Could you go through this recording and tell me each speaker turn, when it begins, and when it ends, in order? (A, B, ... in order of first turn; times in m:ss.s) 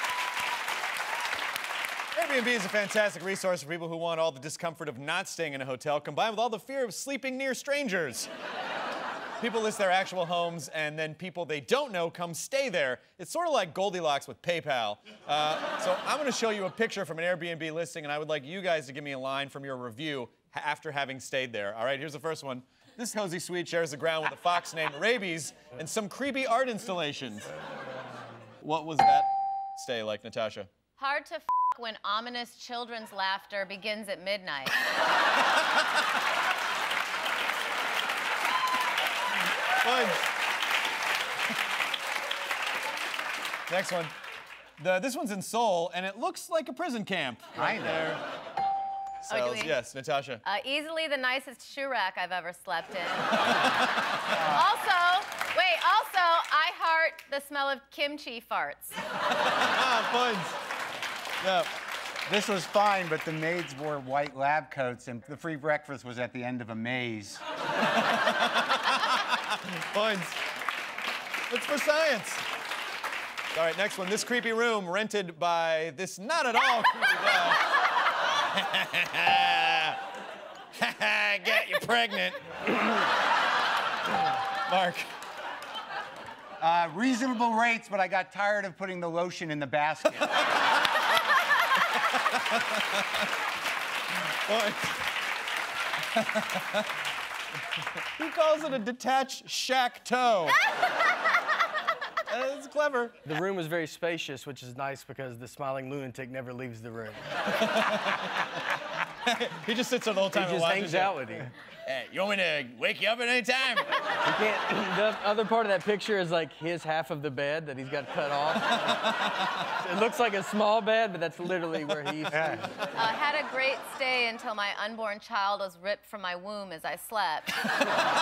0:02.1-0:08.3 A
0:09.4-0:27.5 A
0:28.6-0:30.7 A
0:31.0-0:34.8 B
0:39.8-0:40.2 A
0:43.7-0:44.1 A
0:44.8-0:48.2 A
0:47.6-0:48.1 C
0:49.2-0:50.4 A
0:49.3-0:49.8 B
0:50.4-0:53.6 B
0:53.4-0:53.8 A
0:54.3-0:54.6 C
0:54.3-0:59.0 B
0:59.4-1:00.6 A
1:01.4-1:01.7 A
1:02.3-1:07.4 C
1:08.0-1:10.4 A
1:11.5-1:12.4 A
1:13.5-1:17.6 A
1:18.5-1:20.0 A
1:20.8-1:22.8 A
1:24.7-1:25.1 A
1:26.6-1:30.4 C
1:34.4-1:35.0 A
1:36.2-1:36.8 A
1:38.2-1:40.6 A
1:42.3-1:43.2 A
1:43.2-1:47.3 D
1:47.5-1:51.2 A
1:50.3-1:51.5 D
1:51.8-1:53.9 A
1:54.2-1:59.0 D
1:59.7-2:02.8 D
2:02.3-2:02.7 C
2:03.0-2:07.9 B